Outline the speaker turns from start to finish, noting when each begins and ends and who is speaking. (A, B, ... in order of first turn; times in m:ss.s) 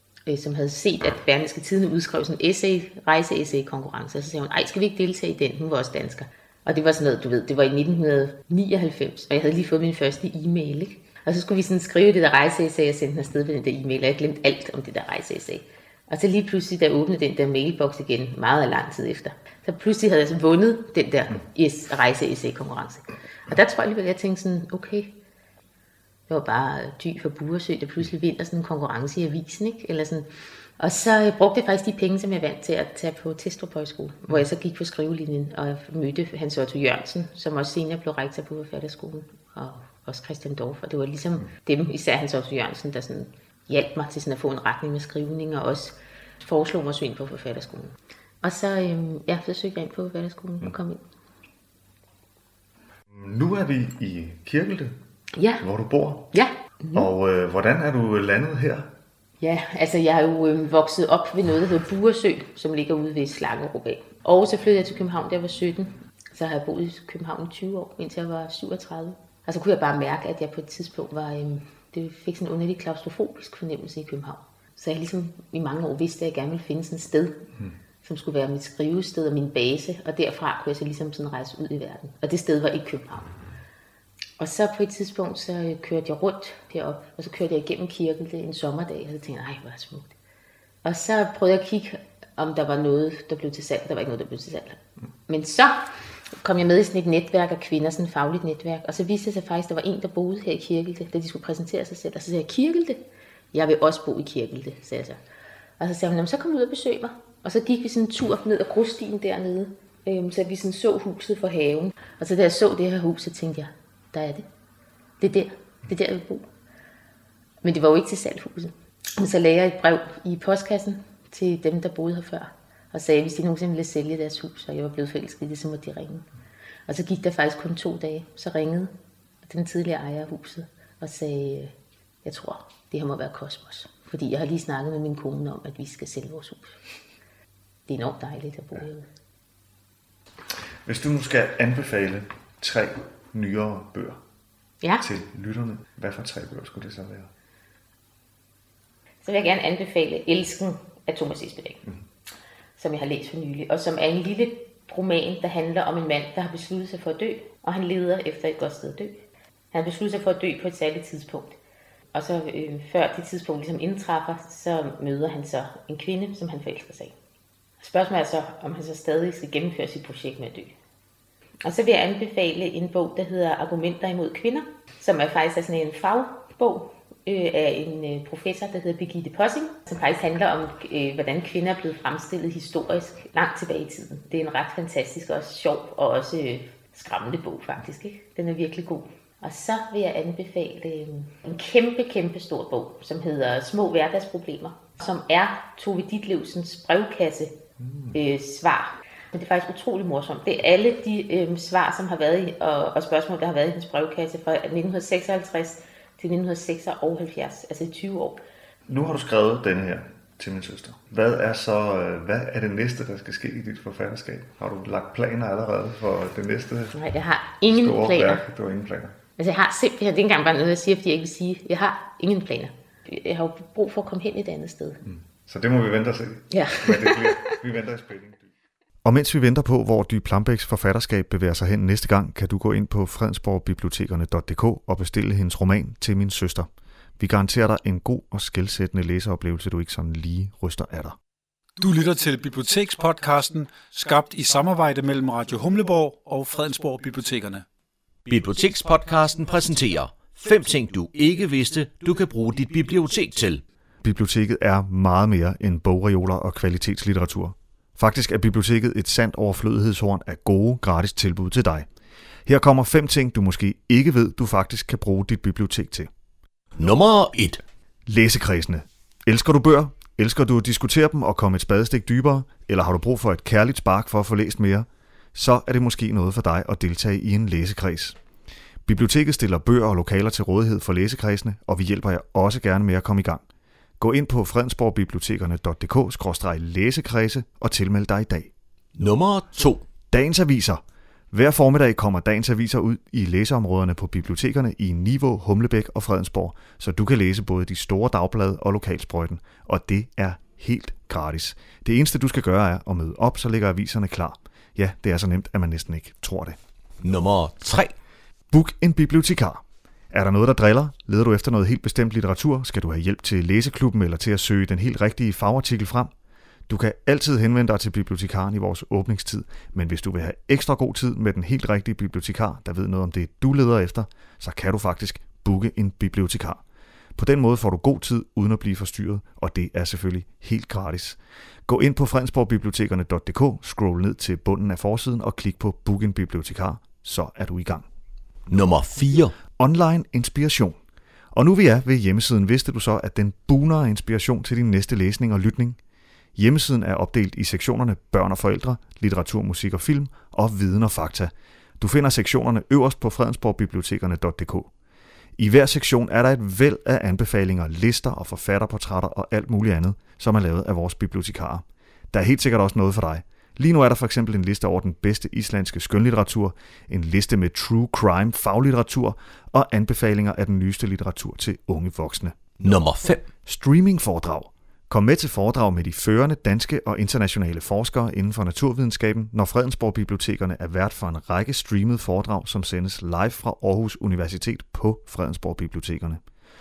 0:00.3-0:25.1 A
0:26.3-0:30.3 A
0:30.8-0:51.0 A
0:53.1-0:55.0 B
0:55.4-0:55.6 A
0:55.6-0:56.3 B
0:56.3-0:57.1 A
0:56.9-0:58.9 B
0:59.4-1:17.4 A
1:18.0-1:23.3 A
1:24.4-1:30.1 A
1:30.8-1:43.0 A
1:43.5-1:45.2 A
1:45.8-1:54.4 A
1:55.2-1:56.5 A
1:57.6-2:06.2 A
2:06.9-2:08.9 A
2:09.4-2:11.7 A
2:12.2-2:16.8 A
2:17.9-2:19.0 A
2:20.8-2:24.2 B
2:24.8-2:25.1 A
2:25.0-2:27.3 B
2:29.2-2:31.8 A
2:32.8-2:39.2 A
2:39.7-2:41.6 A
2:42.1-2:47.1 A
2:47.8-2:50.7 A
2:51.6-3:17.6 A
3:17.8-3:18.2 B
3:18.1-3:28.4 A
3:28.9-3:36.9 B
3:36.9-3:38.4 A
3:37.6-3:39.2 B
3:39.4-3:45.0 A
3:45.0-3:48.5 B
3:46.5-3:47.6 A
3:49.0-4:01.2 B
4:01.8-4:07.6 C
4:08.3-4:13.6 D
4:14.0-4:21.9 B
4:22.5-4:26.1 B
4:26.8-4:27.6 D
4:28.1-4:38.2 B
4:38.9-4:43.4 B
4:44.0-4:48.5 B
4:49.0-4:49.9 D
4:50.1-5:06.6 B
5:07.0-5:07.9 D
5:08.5-5:16.1 B
5:16.7-5:26.6 B
5:27.2-5:37.9 B
5:38.5-5:39.4 D
5:39.4-5:40.8 B
5:41.3-5:45.8 B
5:46.4-5:54.7 B
5:55.4-6:12.8 B
6:12.6-6:13.3 D
6:13.4-6:26.2 B